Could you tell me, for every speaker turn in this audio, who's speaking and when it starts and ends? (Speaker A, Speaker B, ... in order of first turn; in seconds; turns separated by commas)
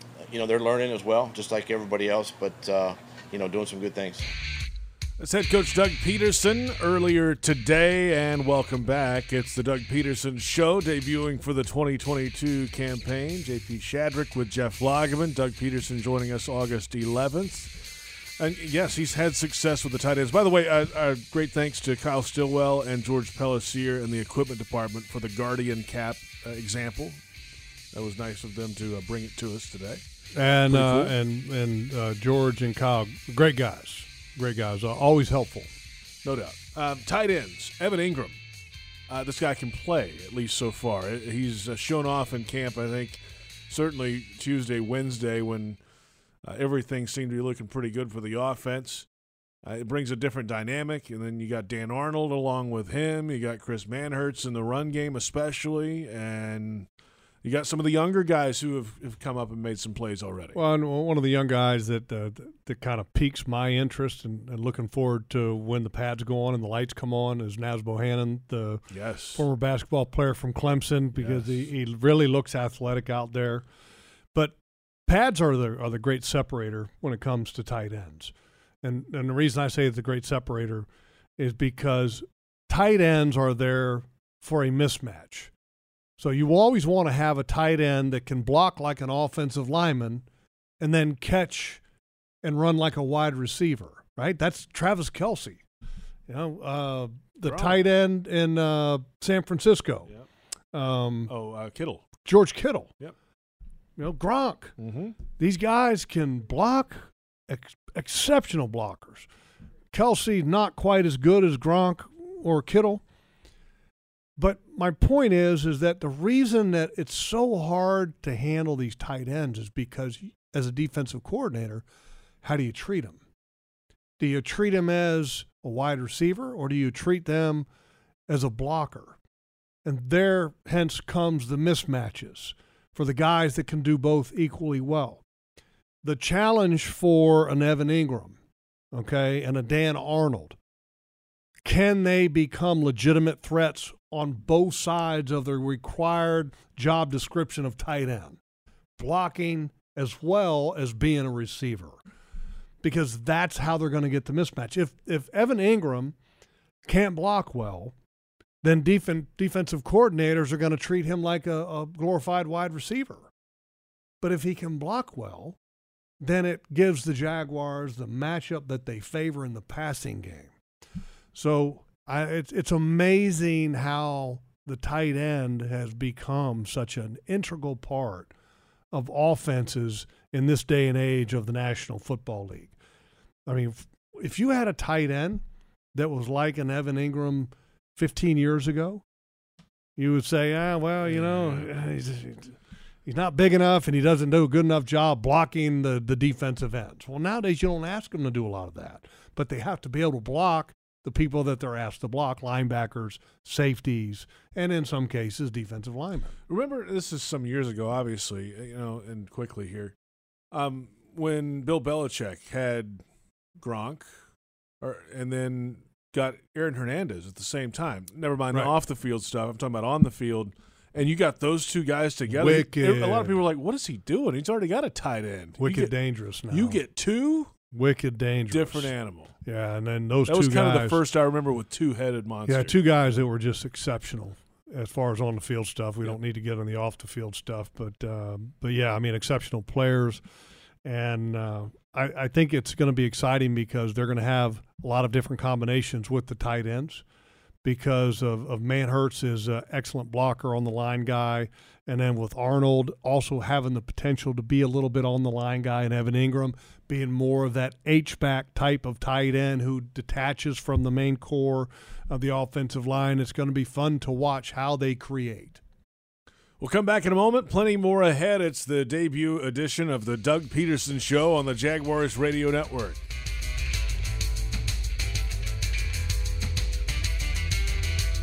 Speaker A: 0.3-4.3, Speaker B: 5.2-17.7, Speaker B: 18.4-27.2, Speaker B: 27.9-30.0, Speaker C: 30.3-35.7, Speaker B: 30.6-31.1, Speaker B: 36.2-38.4, Speaker B: 39.1-45.8, Speaker B: 46.4-49.1, Speaker B: 49.6-56.9, Speaker B: 57.4-60.6, Speaker C: 60.5-73.6, Speaker B: 68.9-69.4, Speaker B: 71.1-71.7, Speaker C: 75.1-85.5, Speaker C: 86.2-90.2, Speaker C: 90.8-91.8, Speaker C: 92.4-95.6, Speaker C: 96.3-100.1, Speaker B: 97.4-97.8, Speaker C: 100.7-101.3, Speaker B: 101.3-102.1, Speaker C: 102.2-102.9, Speaker C: 104.0-104.8, Speaker B: 104.8-105.2, Speaker C: 105.4-109.3, Speaker C: 109.9-113.0, Speaker C: 114.4-121.8, Speaker C: 122.4-123.2, Speaker C: 124.2-127.7, Speaker C: 128.3-129.2, Speaker C: 129.8-135.2, Speaker C: 136.0-138.3, Speaker C: 138.9-140.6, Speaker C: 141.6-148.4, Speaker C: 149.0-152.0, Speaker C: 152.8-156.2, Speaker C: 156.8-157.9, Speaker C: 158.6-163.3, Speaker C: 164.2-165.6, Speaker C: 166.2-170.5, Speaker C: 171.3-178.3, Speaker C: 178.9-182.7, Speaker C: 183.4-189.0, Speaker C: 190.0-192.5, Speaker B: 191.0-191.7, Speaker C: 193.1-206.3, Speaker B: 206.5-209.9, Speaker B: 210.5-213.0, Speaker B: 213.6-214.1, Speaker B: 214.8-225.9, Speaker C: 222.3-223.4, Speaker C: 225.6-226.8, Speaker B: 226.5-227.5, Speaker C: 227.7-228.9, Speaker B: 228.5-229.3, Speaker C: 229.4-231.0, Speaker B: 230.3-232.8, Speaker C: 232.5-240.2, Speaker C: 240.8-247.0, Speaker C: 247.6-265.6, Speaker B: 266.6-273.0